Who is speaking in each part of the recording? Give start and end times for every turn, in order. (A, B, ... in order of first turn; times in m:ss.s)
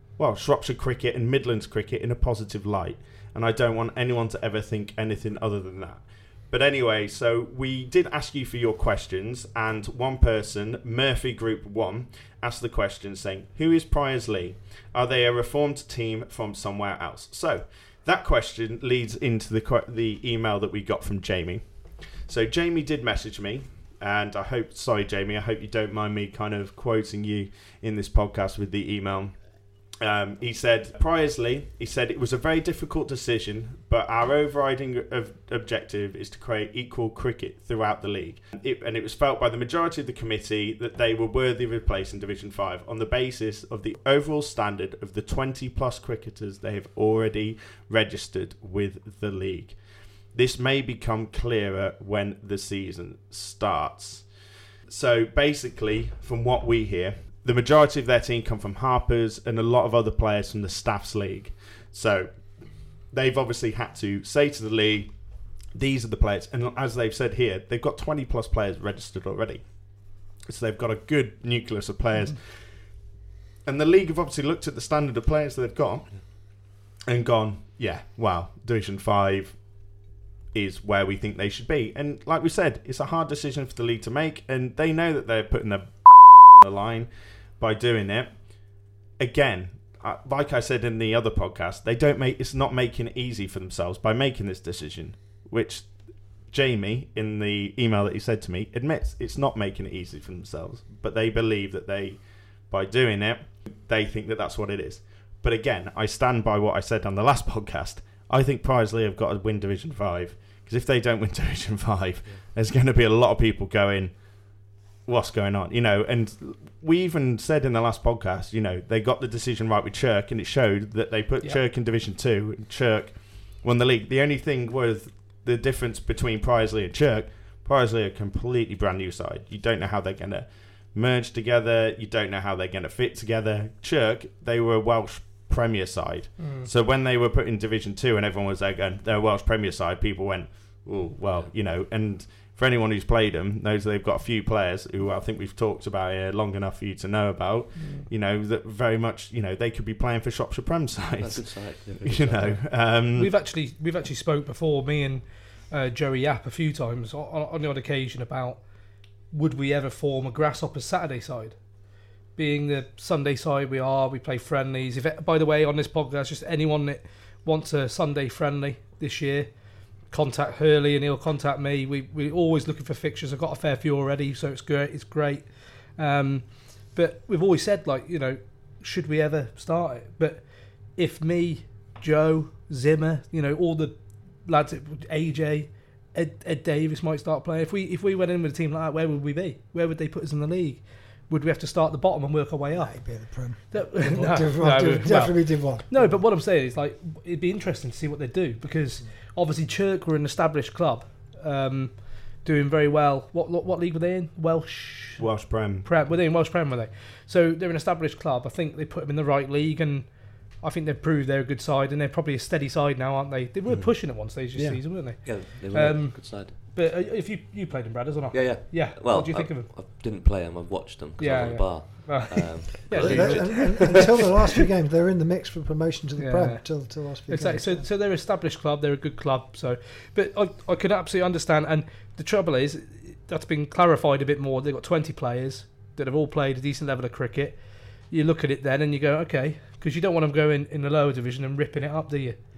0:00.2-0:29.4 A
0:30.0-0:49.8 A
0:50.3-0:54.3 A
0:54.9-1:13.0 A
1:13.6-1:19.9 A
1:20.5-1:28.4 A
1:29.2-1:35.9 A
1:36.5-2:33.3 A
2:16.4-2:16.7 B
2:21.2-2:21.5 C
2:27.8-2:28.1 B
2:31.2-2:32.6 C
2:33.1-2:38.6 B
2:39.3-2:41.6 B
2:42.3-3:13.2 B
3:12.7-3:16.2 D
3:13.7-3:25.3 B
3:25.2-3:25.9 A
3:25.8-3:39.7 B
3:33.6-3:34.8 A
3:35.2-3:36.6 C
3:38.3-3:44.3 C
3:41.2-3:44.3 B
3:43.0-3:47.8 D
3:46.2-4:02.4 B